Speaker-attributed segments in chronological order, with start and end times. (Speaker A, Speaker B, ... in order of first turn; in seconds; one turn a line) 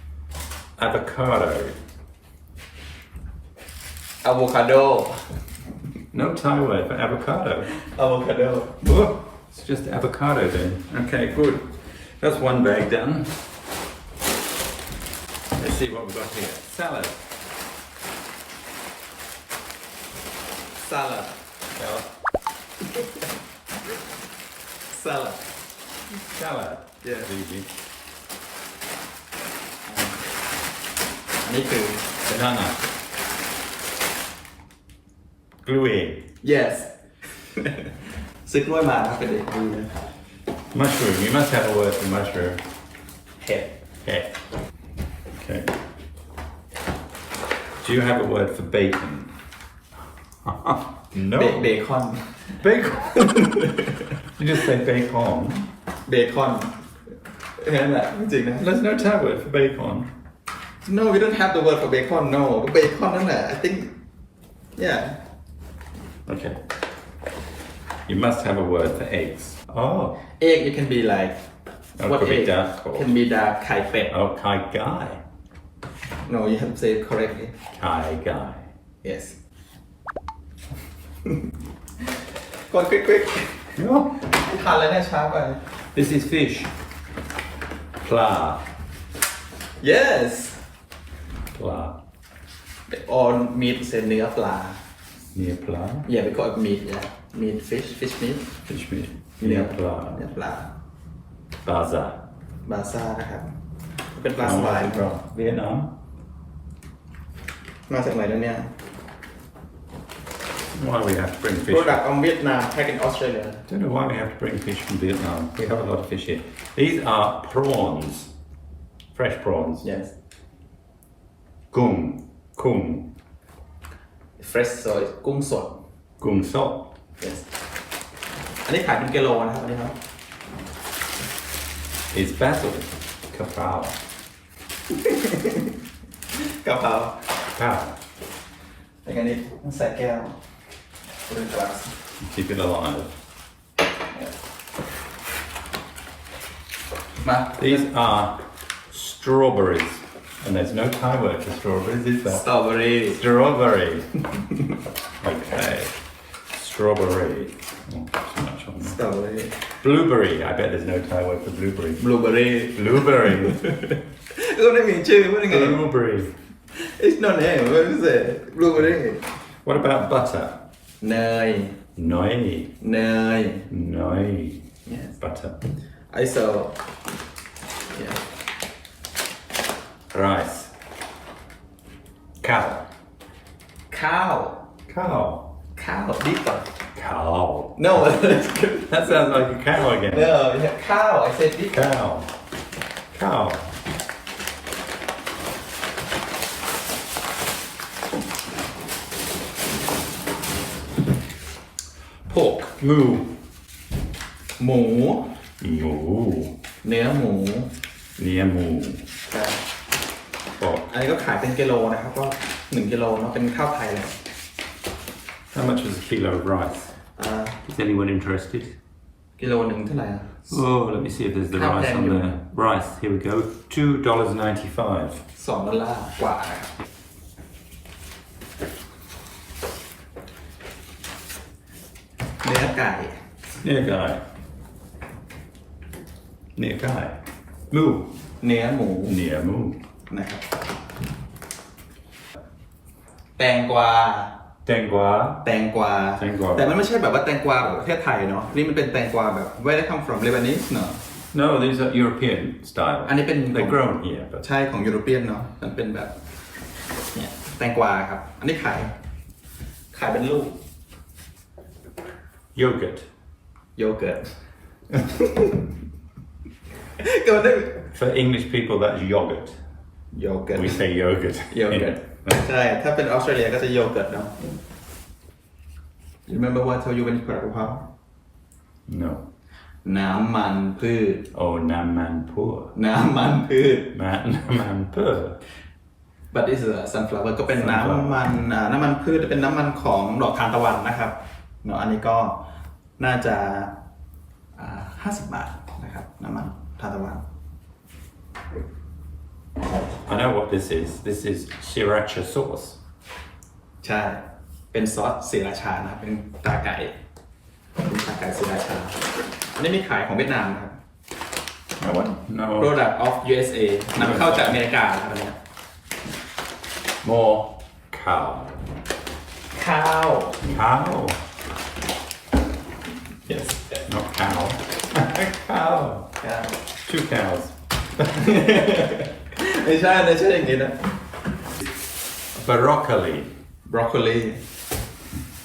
Speaker A: 0.8-1.8
Speaker B: 4.2-5.2
Speaker A: 6.1-7.7
Speaker B: 7.8-8.8
Speaker A: 8.8-13.4
Speaker A: 15.6-17.2
Speaker B: 20.8-21.4
Speaker A: 21.8-22.1
Speaker B: 24.9-25.4
Speaker A: 26.3-27.7
Speaker B: 27.0-27.3
Speaker B: 29.9-30.2
Speaker B: 31.4-32.1
Speaker A: 32.2-32.8
Speaker A: 35.6-36.3
Speaker B: 36.4-37.0
Speaker B: 37.5-39.9
Speaker A: 40.7-42.6
Speaker B: 43.4-43.8
Speaker A: 44.0-44.4
Speaker A: 45.3-45.7
Speaker A: 47.8-49.3
Speaker A: 50.5-51.7
Speaker B: 51.3-52.4
Speaker A: 52.6-53.3
Speaker B: 53.1-54.1
Speaker A: 54.4-55.7
Speaker B: 56.1-56.7
Speaker B: 57.6-58.7
Speaker A: 58.6-60.1
Speaker B: 60.8-63.9
Speaker B: 64.8-65.2
Speaker A: 66.2-66.6
Speaker A: 68.1-70.2
Speaker B: 70.4-71.4
Speaker A: 72.0-73.1
Speaker B: 72.0-74.1
Speaker A: 74.1-75.2
Speaker B: 76.2-77.5
Speaker A: 77.7-78.7
Speaker B: 79.0-79.4
Speaker B: 82.7-85.6
Speaker A: 83.8-84.2
Speaker A: 85.9-86.7
Speaker A: 88.0-88.7
Speaker B: 89.8-90.6
Speaker A: 91.5-92.0
Speaker B: 92.9-94.8
Speaker A: 95.3-96.1
Speaker B: 96.0-98.5
Speaker A: 98.7-100.2
Speaker B: 99.4-100.7
Speaker A: 101.7-102.2
Speaker B: 102.6-103.5
Speaker B: 104.1-105.1
Speaker A: 104.4-106.0
Speaker B: 107.9-108.7
Speaker A: 110.7-112.0
Speaker B: 111.7-113.7
Speaker A: 113.7-118.3
Speaker A: 119.1-119.9
Speaker B: 119.8-120.1
Speaker A: 121.7-123.1
Speaker B: 124.4-125.8
Speaker A: 126.2-126.9
Speaker B: 127.2-127.5
Speaker B: 128.7-129.9
Speaker A: 132.1-134.0
Speaker B: 134.9-135.7
Speaker B: 136.4-137.2
Speaker A: 137.6-138.0
Speaker B: 139.1-140.4
Speaker B: 141.2-141.9
Speaker A: 142.2-143.1
Speaker B: 147.2-147.9
Speaker A: 147.6-152.4
Speaker B: 152.2-153.2
Speaker A: 153.1-154.1
Speaker A: 155.2-155.9
Speaker A: 156.5-159.0
Speaker B: 158.8-159.6
Speaker A: 159.8-162.0
Speaker B: 162.0-165.8
Speaker A: 162.7-163.6
Speaker A: 165.5-166.3
Speaker B: 166.7-169.2
Speaker A: 169.6-170.7
Speaker B: 171.0-171.8
Speaker A: 172.0-172.8
Speaker B: 172.8-173.7
Speaker A: 173.7-174.7
Speaker B: 174.9-175.2
Speaker A: 175.2-175.6
Speaker B: 176.1-176.8
Speaker B: 177.9-178.2
Speaker A: 180.1-180.7
Speaker A: 182.4-182.9
Speaker B: 183.9-184.6
Speaker A: 184.9-185.5
Speaker B: 185.8-186.7
Speaker A: 186.9-187.9
Speaker B: 187.8-189.4
Speaker A: 188.9-190.3
Speaker B: 190.1-191.8
Speaker A: 191.7-192.3
Speaker A: 193.1-193.7
Speaker A: 202.2-203.4
Speaker B: 204.6-205.3
Speaker A: 205.6-206.6
Speaker B: 206.8-207.7
Speaker A: 208.2-209.1
Speaker B: 209.3-209.6
Speaker A: 210.6-210.9
Speaker B: 210.9-214.2
Speaker A: 215.5-216.9
Speaker B: 217.2-217.6
Speaker A: 217.7-218.8
Speaker B: 219.4-220.5
Speaker A: 220.5-225.2
Speaker B: 221.5-222.3
Speaker B: 225.3-226.7
Speaker B: 232.4-233.2
Speaker A: 233.6-234.2
Speaker A: 236.6-237.2
Speaker A: 237.7-238.1
Speaker B: 238.4-239.2
Speaker A: 239.1-239.8
Speaker B: 240.1-240.4
Speaker B: 243.4-244.3
Speaker A: 244.7-245.5
Speaker B: 245.4-251.0
Speaker A: 246.2-246.8
Speaker A: 251.3-254.4
Speaker B: 253.1-253.8
Speaker B: 254.4-256.1
Speaker B: 257.1-258.9
Speaker B: 259.9-260.6
Speaker A: 262.6-263.1
Speaker B: 263.8-264.3
Speaker B: 264.9-265.7
Speaker B: 267.0-267.9
Speaker A: 267.9-269.6
Speaker B: 270.1-270.8
Speaker A: 270.6-272.4
Speaker B: 271.5-274.4
Speaker B: 276.2-277.9
Speaker A: 278.9-279.2
Speaker B: 279.8-281.3
Speaker A: 281.3-282.7
Speaker B: 282.8-283.9
Speaker A: 283.9-285.4
Speaker B: 286.3-292.4
Speaker A: 287.5-288.2
Speaker B: 293.0-293.7
Speaker B: 294.6-297.2
Speaker A: 300.1-302.8
Speaker B: 303.8-306.9
Speaker B: 307.8-310.8
Speaker A: 311.8-312.8
Speaker B: 312.6-315.4
Speaker A: 313.9-314.6
Speaker A: 317.0-318.6
Speaker B: 319.5-320.5
Speaker A: 320.4-321.2
Speaker B: 323.2-323.8
Speaker A: 323.9-326.1
Speaker B: 326.2-326.6
Speaker A: 326.9-327.6
Speaker B: 328.0-330.9
Speaker A: 332.3-333.4
Speaker B: 333.7-334.4